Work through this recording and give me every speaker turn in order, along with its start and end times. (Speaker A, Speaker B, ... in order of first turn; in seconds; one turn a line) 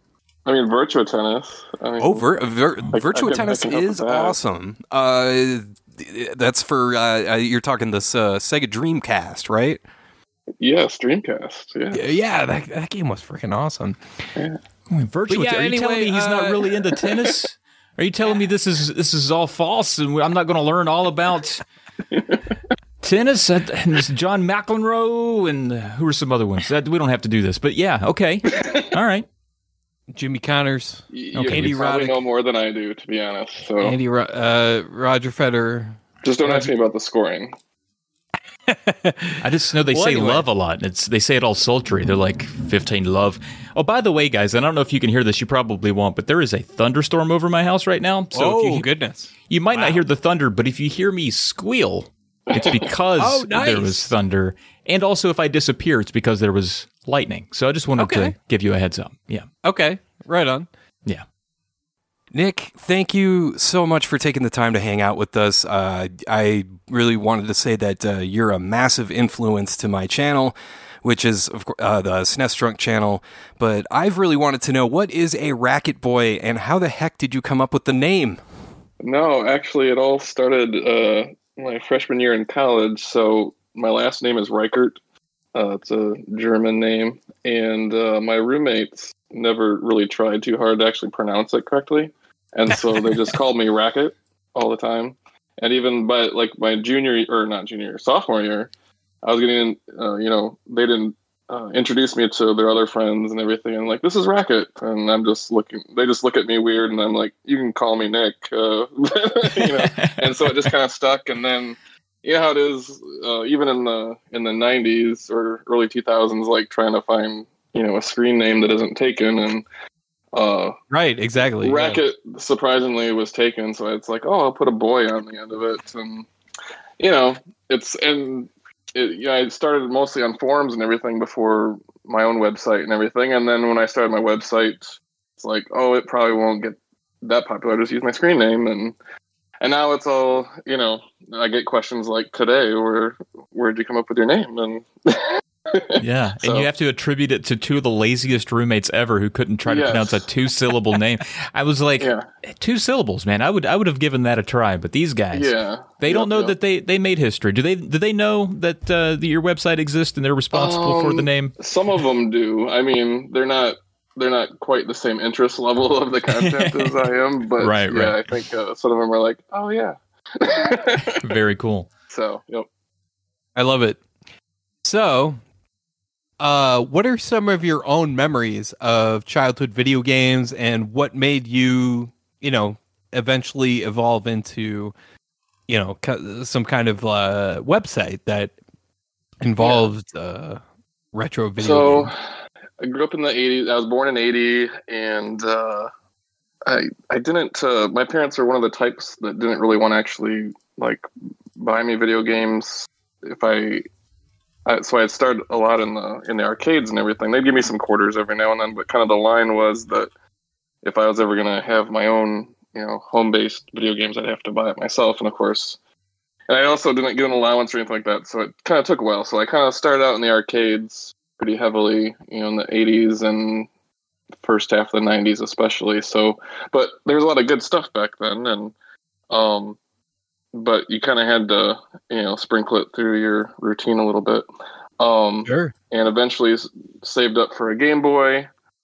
Speaker A: 0.5-2.2
Speaker B: 2.0-9.8
Speaker A: 2.9-4.4
Speaker A: 10.6-12.2
Speaker B: 11.9-14.0
Speaker C: 14.9-21.6
Speaker B: 15.3-16.8
Speaker A: 22.1-22.4
Speaker C: 23.0-29.2
Speaker B: 30.1-32.2
Speaker A: 31.1-34.0
Speaker C: 31.3-31.8
Speaker B: 33.8-36.0
Speaker A: 36.2-37.5
Speaker C: 36.4-36.7
Speaker B: 38.7-40.5
Speaker C: 39.4-48.9
Speaker B: 48.3-50.0
Speaker C: 49.5-59.5
Speaker B: 53.2-54.1
Speaker B: 58.0-58.3
Speaker B: 59.6-60.7
Speaker B: 62.3-78.4
Speaker A: 79.0-85.0
Speaker A: 85.5-98.7
Speaker A: 99.2-119.6
Speaker C: 109.6-110.5
Speaker A: 120.3-120.8
Speaker B: 120.9-122.0
Speaker A: 121.6-126.3
Speaker A: 127.0-138.9
Speaker A: 139.6-146.7
Speaker C: 146.0-161.6
Speaker A: 149.7-150.2
Speaker A: 152.0-152.3
Speaker A: 155.3-156.6
Speaker A: 160.5-171.2
Speaker C: 166.4-167.0
Speaker C: 167.6-168.2
Speaker C: 171.1-171.9
Speaker A: 172.1-172.7
Speaker B: 173.6-174.0
Speaker B: 174.8-175.4
Speaker B: 176.4-184.9
Speaker B: 185.7-188.5
Speaker B: 189.4-192.1
Speaker A: 191.6-192.2
Speaker A: 192.8-195.9
Speaker A: 196.7-201.1
Speaker A: 201.6-203.8
Speaker A: 204.7-210.1
Speaker A: 210.8-215.8
Speaker A: 216.5-223.7
Speaker A: 224.4-228.7
Speaker A: 229.3-229.8
Speaker A: 230.5-234.4
Speaker A: 235.0-238.5
Speaker B: 235.4-235.7